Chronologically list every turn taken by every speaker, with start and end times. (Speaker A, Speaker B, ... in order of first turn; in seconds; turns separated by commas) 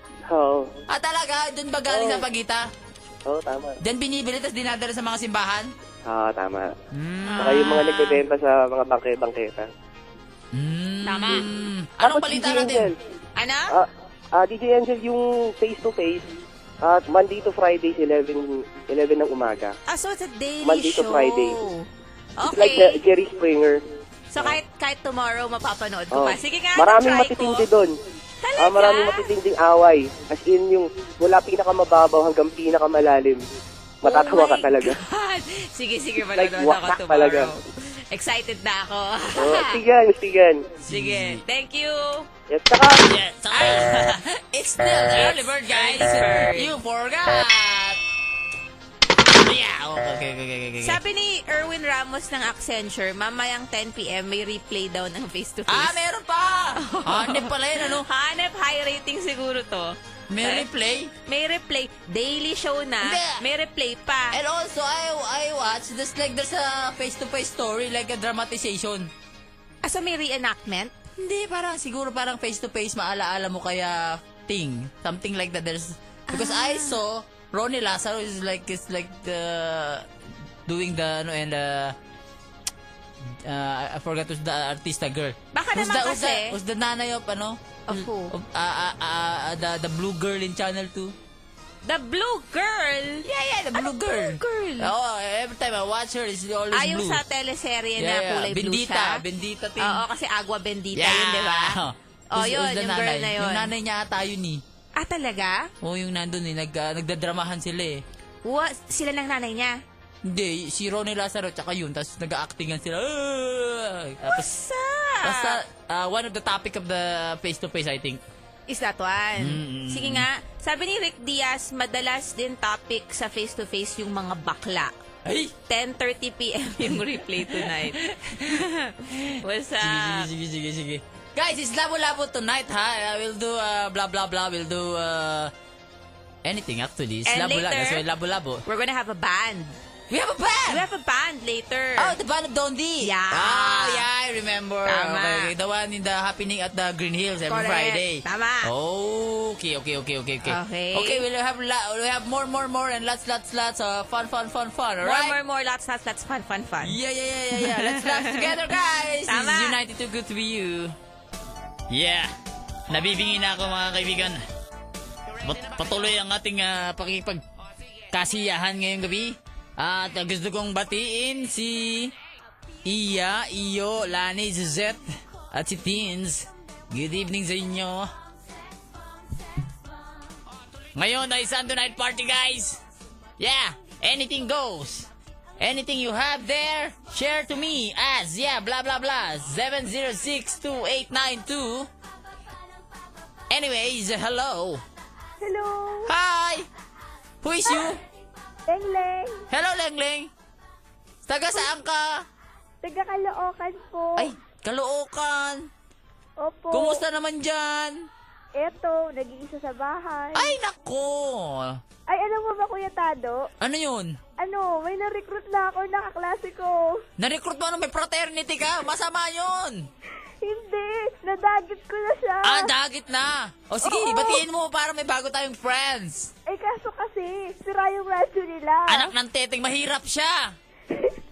Speaker A: 0.3-0.7, Speaker B: 0.9-2.6, Speaker A: 1.9-2.2, Speaker A: 3.3-3.8, Speaker B: 3.8-5.7, Speaker A: 6.1-6.7, Speaker B: 6.9-7.5, Speaker C: 7.3-8.2, Speaker A: 7.4-9.7, Speaker B: 10.5-12.9, Speaker C: 11.0-11.5, Speaker A: 12.0-12.9, Speaker C: 13.4-13.7, Speaker A: 13.7-16.3, Speaker A: 16.8-19.7, Speaker C: 19.9-23.0, Speaker A: 20.6-21.6, Speaker A: 22.4-23.8, Speaker C: 24.3-27.6, Speaker A: 26.1-27.9, Speaker C: 28.4-29.3, Speaker A: 28.6-33.4, Speaker A: 34.0-35.0, Speaker C: 34.0-39.8, Speaker A: 36.3-37.5, Speaker A: 39.4-40.7, Speaker B: 40.8-41.4, Speaker C: 40.9-42.3, Speaker A: 42.5-43.1, Speaker B: 43.0-48.0, Speaker C: 43.5-44.0, Speaker C: 45.1-46.7, Speaker B: 49.4-51.0, Speaker C: 50.8-56.0, Speaker B: 55.7-58.0, Speaker C: 56.7-60.6, Speaker B: 60.3-61.1, Speaker C: 61.2-64.3, Speaker B: 63.0-63.4, Speaker B: 64.3-69.1, Speaker C: 69.8-70.9, Speaker B: 71.2-80.1, Speaker C: 76.3-77.0, Speaker B: 80.7-82.0, Speaker B: 83.4-91.1, Speaker C: 85.5-86.5, Speaker C: 87.9-88.3, Speaker C: 91.8-94.9, Speaker B: 93.2-97.2, Speaker C: 96.7-99.2, Speaker B: 98.0-100.0, Speaker C: 99.8-101.8, Speaker B: 100.9-104.6, Speaker C: 102.3-103.7, Speaker C: 105.0-105.7, Speaker B: 105.8-108.0, Speaker C: 108.4-109.8, Speaker B: 110.2-114.5, Speaker C: 114.2-115.6, Speaker B: 115.2-118.2, Speaker C: 118.7-124.9, Speaker B: 119.4-120.2, Speaker B: 125.2-125.5, Speaker C: 125.7-130.3, Speaker B: 126.8-128.6, Speaker B: 129.3-135.5, Speaker B: 136.4-138.6, Speaker C: 137.2-138.0, Speaker C: 138.7-139.8, Speaker B: 140.1-140.8, Speaker C: 140.7-142.1, Speaker B: 142.0-155.3, Speaker C: 143.0-144.1, Speaker C: 144.8-145.5, Speaker C: 147.5-148.7, Speaker C: 150.5-151.2, Speaker C: 155.0-156.9, Speaker B: 156.8-160.9, Speaker C: 157.6-158.5, Speaker C: 159.3-159.8, Speaker B: 161.9-162.3, Speaker B: 162.9-164.4, Speaker B: 165.4-167.4, Speaker B: 168.1-172.1, Speaker B: 172.8-178.1, Speaker B: 180.9-182.8, Speaker B: 183.4-191.9, Speaker B: 193.5-194.8, Speaker D: 195.4-196.1, Speaker B: 196.1-196.7, Speaker B: 197.4-198.0, Speaker D: 198.7-199.4, Speaker B: 199.5-200.3, Speaker B: 201.3-202.2, Speaker D: 202.8-204.3, Speaker B: 204.2-205.7, Speaker D: 206.4-207.0, Speaker B: 206.7-208.0, Speaker D: 208.6-210.5, Speaker B: 210.3-211.8, Speaker D: 212.1-213.5, Speaker B: 213.6-214.2, Speaker D: 214.4-217.0, Speaker B: 217.2-219.9, Speaker D: 220.4-222.7, Speaker B: 222.4-226.3, Speaker D: 223.8-224.4, Speaker D: 226.5-229.1, Speaker B: 228.9-230.5